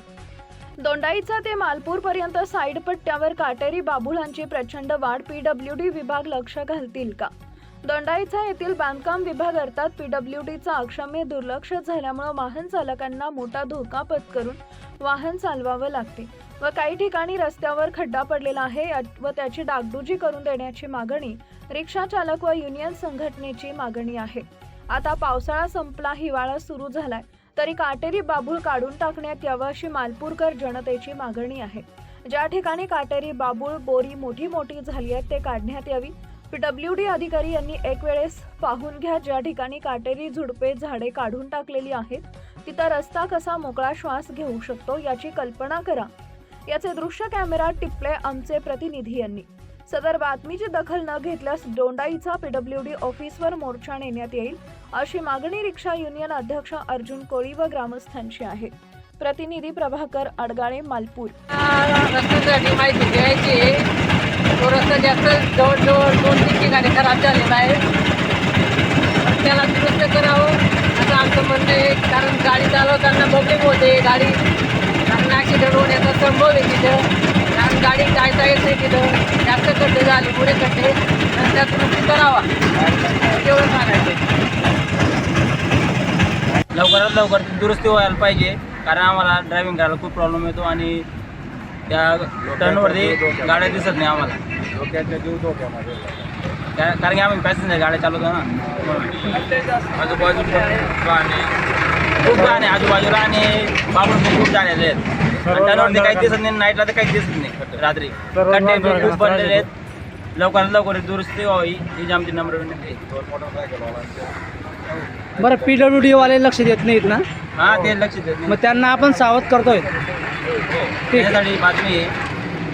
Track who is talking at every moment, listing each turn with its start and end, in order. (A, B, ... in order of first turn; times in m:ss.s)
0:00.8-0:07.3 A
0:07.8-0:46.1 A
0:46.7-1:01.4 A
1:01.5-1:03.9 B
1:04.6-1:07.8 B
1:09.2-1:14.4 B
1:15.0-1:22.5 B
1:23.1-1:24.2 B
1:26.7-1:31.1 C
1:31.9-1:34.4 C
1:32.6-1:33.5 D
1:34.7-1:36.1 D
1:36.7-1:41.6 C
1:42.2-1:49.7 C
1:48.4-1:49.6 D
1:50.3-1:53.0 C
1:53.1-1:54.3 D
1:55.4-1:57.2 D
1:57.6-1:58.6 C
1:58.5-1:59.9 D
2:00.7-2:02.1 C